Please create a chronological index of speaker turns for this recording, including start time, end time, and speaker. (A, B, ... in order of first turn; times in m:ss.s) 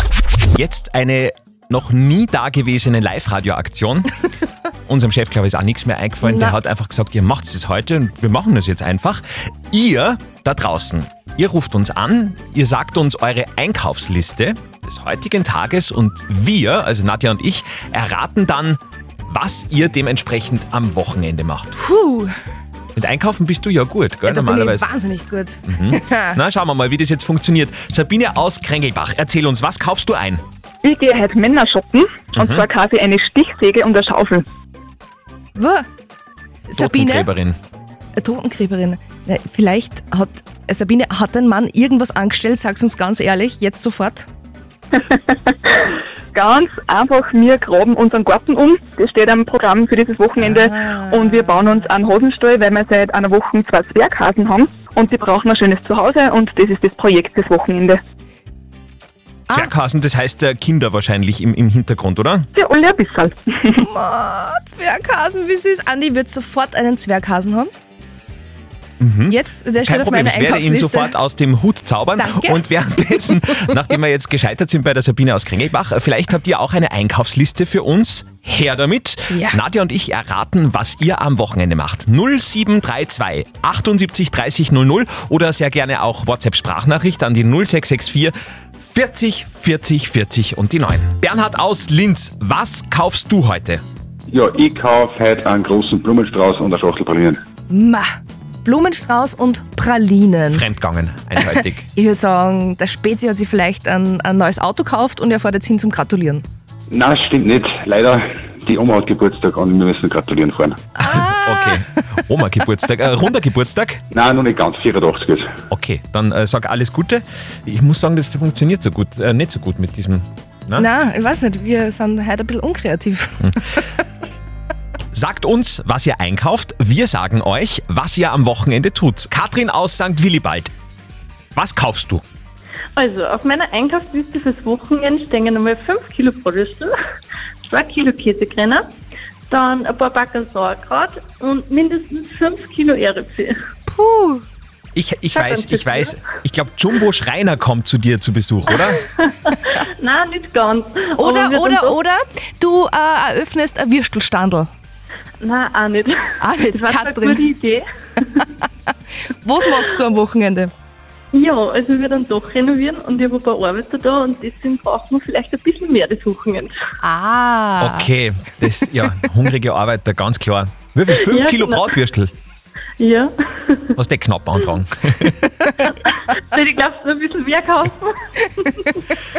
0:00.6-0:04.1 A
0:04.9-0:21.7 A
0:06.2-0:06.6 B
0:21.8-0:22.3 B
0:23.0-0:24.9 A
0:24.3-0:26.4 B
0:25.7-0:30.4 A
0:30.8-0:34.4 C
0:32.3-0:32.7 A
0:35.6-0:35.9 B
0:36.7-0:37.3 B
0:36.8-0:37.6 A
0:38.2-0:44.3 B
0:46.3-0:58.0 C
0:50.4-0:51.9 B
0:59.5-1:02.5 A
1:02.5-1:03.8 C
1:03.8-1:07.7 B
1:09.0-1:33.8 A
1:09.3-1:11.2 B
1:12.2-1:13.7 B
1:19.3-1:19.6 B
1:34.3-1:37.4 D
1:37.7-1:40.6 B
1:40.5-1:41.8 A
1:41.9-1:46.4 B
1:46.9-1:50.8 D
1:51.0-1:51.8 B
1:51.0-1:54.0 A
1:54.1-1:55.5 D
1:55.7-2:00.9 A
2:00.8-2:03.8 B
2:05.1-2:10.7 A
2:11.6-2:12.2 A
2:13.0-2:16.9 E
2:17.7-2:18.9 E
2:19.5-2:23.6 E
2:23.9-2:24.4 B
2:25.0-2:29.0 A
2:25.3-2:26.2 E
2:28.8-2:32.0 E
2:31.2-2:34.7 B
2:35.4-2:36.2 E
2:36.4-2:37.5 B
2:36.7-2:38.5 E
2:39.4-2:40.7 B
2:41.3-2:46.7 E
2:47.0-2:48.1 B
2:47.8-2:52.3 A
2:51.2-2:52.0 E
2:53.0-2:54.0 E
2:54.0-2:55.9 A
2:55.8-2:59.0 E